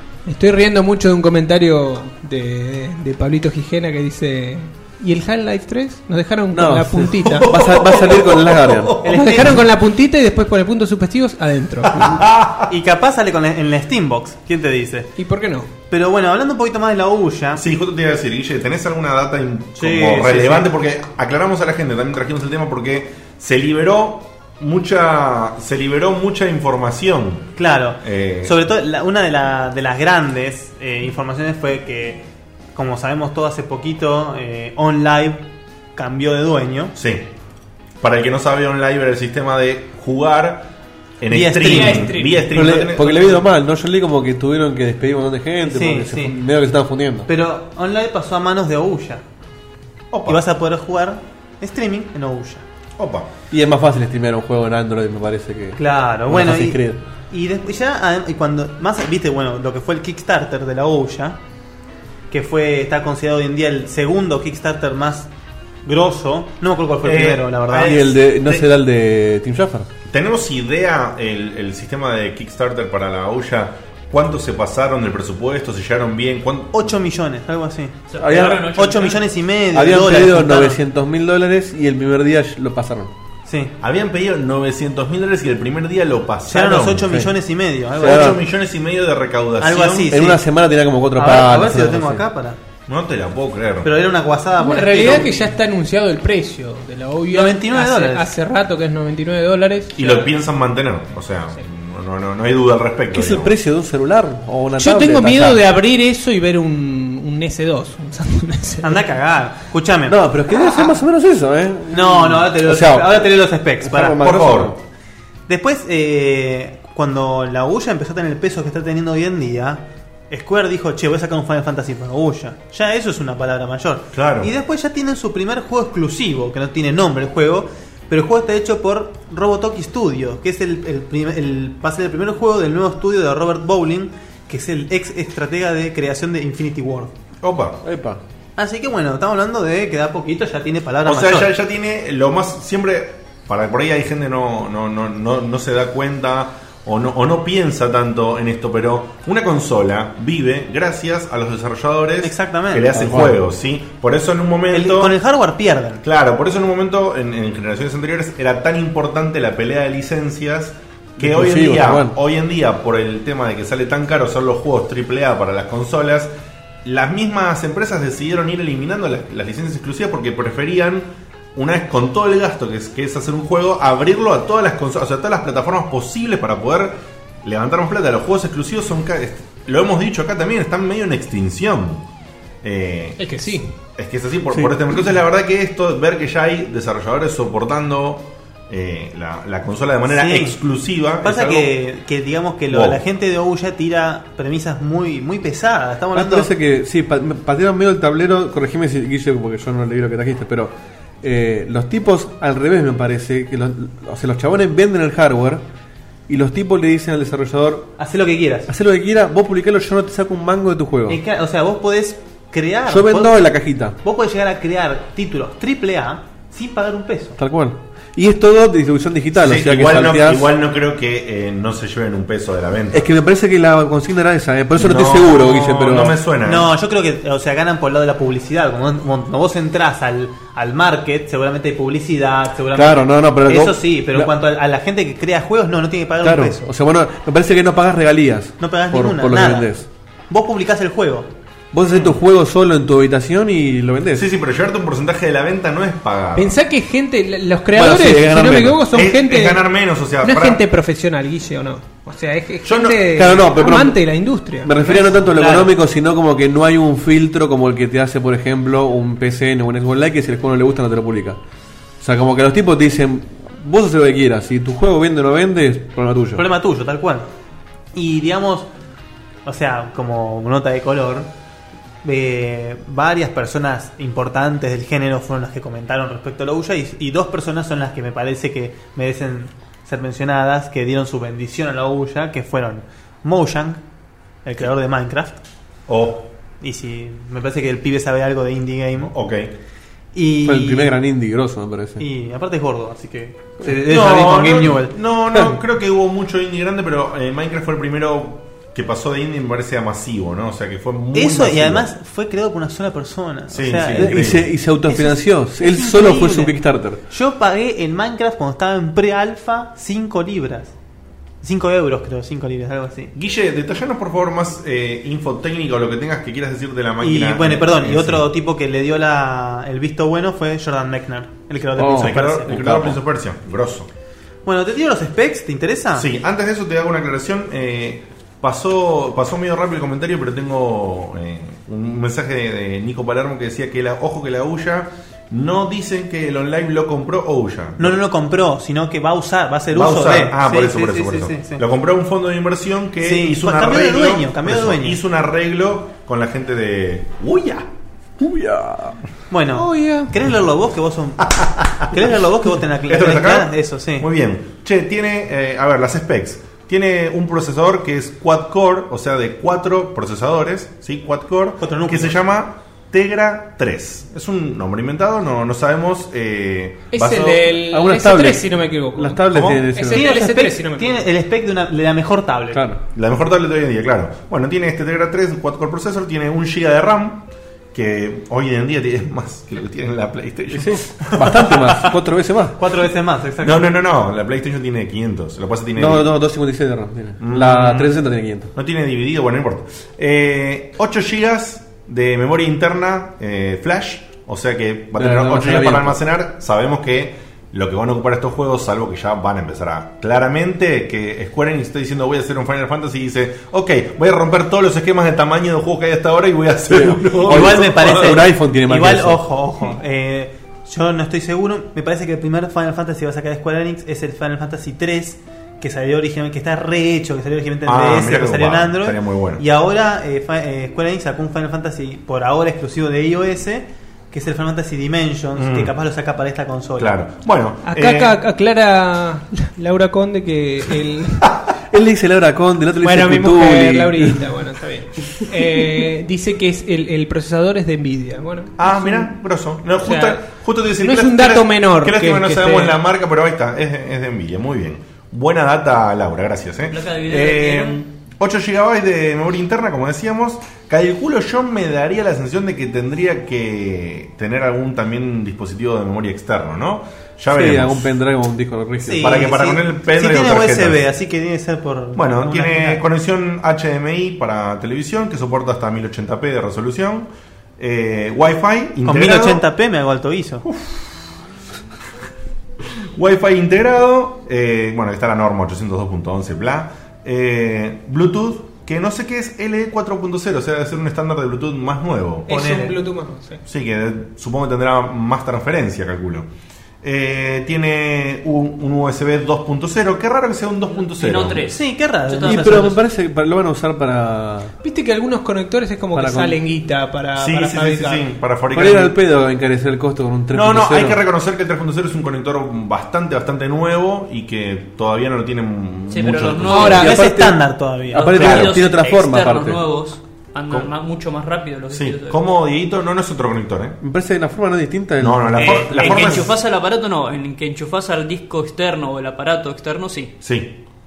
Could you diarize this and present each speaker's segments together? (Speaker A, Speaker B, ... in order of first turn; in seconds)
Speaker A: 0.2-7.6, 9.0-12.1, 15.2-15.7, 41.6-42.5, 94.6-100.2, 104.8-109.0, 183.2-183.7, 246.3-249.6, 250.2-254.7, 349.7-350.0, 366.9-371.1, 427.6-431.3, 432.8-439.1, 439.8-440.2, 440.8-442.8, 482.3-483.4, 494.6-498.1, 506.5-506.9
Speaker B: 6.5-9.0, 42.5-47.3, 53.5-57.0, 67.8-69.9, 78.2-78.7, 79.7-83.1, 87.0-87.3, 88.0-88.4, 90.1-92.2, 103.1-105.6, 110.1-114.8, 137.8-138.2, 152.9-153.3, 161.2-162.1, 196.1-205.6, 206.3-207.9, 208.7-211.2, 212.9-213.9, 217.4-220.5, 222.9-226.2, 232.7-234.3, 236.2-239.9, 241.7-244.2, 247.7-248.8, 253.1-254.1, 254.6-261.4, 262.0-266.4, 290.4-292.0, 303.9-307.0, 321.8-322.9, 348.2-349.0, 367.7-370.0, 372.5-372.8, 380.5-382.6, 385.8-388.5, 395.0-396.0, 406.7-409.2, 431.7-434.3, 457.3-459.2, 492.2-494.5, 495.9-496.4, 498.5-501.0, 506.8-509.6, 513.8-515.6
Speaker C: 7.5-8.8, 11.9-12.7, 17.6-27.5, 28.0-28.5, 37.0-37.3, 38.0-40.7, 41.2-43.5, 50.1-50.4, 53.0-53.3, 67.0-68.7, 70.1-76.9, 83.8-87.1, 88.0-90.1, 92.9-93.9, 100.0-103.5, 114.2-114.7, 124.1-124.5, 137.4-137.8, 141.0-155.2, 156.0-166.3, 166.8-182.0, 182.6-191.7, 192.7-193.0, 219.3-223.1, 224.8-226.7, 241.9-242.2, 244.1-246.5, 248.9-250.6, 252.6-253.2, 285.9-286.3, 289.0-289.5, 293.9-301.9, 303.5-304.5, 313.1-318.2, 321.9-323.9, 325.9-338.0, 339.7-347.7, 351.3-351.9, 352.9-367.6, 369.3-369.6, 372.9-381.9, 383.4-386.1, 387.2-388.0, 388.5-408.2, 417.6-419.4, 425.4-425.7, 426.8-428.2, 438.6-457.9, 459.0-460.9, 461.9-469.4, 470.4-470.9, 472.9-482.3, 483.4-486.3, 486.8-491.5, 497.2-498.9, 500.3-506.8, 508.1-508.6, 511.7-513.8, 515.0-516.3, 520.2-520.6
Speaker D: 9.0-9.6, 12.7-15.1, 15.9-17.6, 19.8-20.7, 27.6-32.2, 32.7-36.9, 41.3-42.1, 45.6-46.3, 47.2-49.2, 50.2-52.6, 55.8-61.4, 62.3-65.3, 65.8-68.0, 76.7-80.8, 83.5-83.7, 86.5-88.4, 89.6-90.4, 91.1-92.6, 93.8-95.5, 97.3-98.3, 108.8-110.9, 111.9-114.2, 115.5-137.1, 138.6-141.5, 152.2-152.9, 154.7-156.0, 190.1-190.6, 191.2-196.5, 208.0-208.7, 211.1-213.5, 214.0-217.4, 226.4-236.7, 238.6-239.7, 240.3-241.3, 254.8-255.7, 266.3-267.3, 267.9-268.7, 269.4-271.3, 272.0-283.8, 284.4-285.4, 286.6-289.1, 290.1-290.9, 292.0-294.9, 301.1-310.7, 311.4-313.1, 317.0-322.9, 324.4-326.1, 337.8-341.6, 343.0-345.0, 349.3-354.1, 361.6-362.2, 369.9-372.6, 382.6-383.7, 407.2-427.0, 458.8-462.8, 468.8-470.4, 482.3-482.8, 491.4-492.7, 506.7-508.1, 515.4-516.2
Speaker E: 78.1-79.2, 446.7-447.8, 490.8-492.8, 505.9-506.9, 507.9-512.2, 515.4-520.1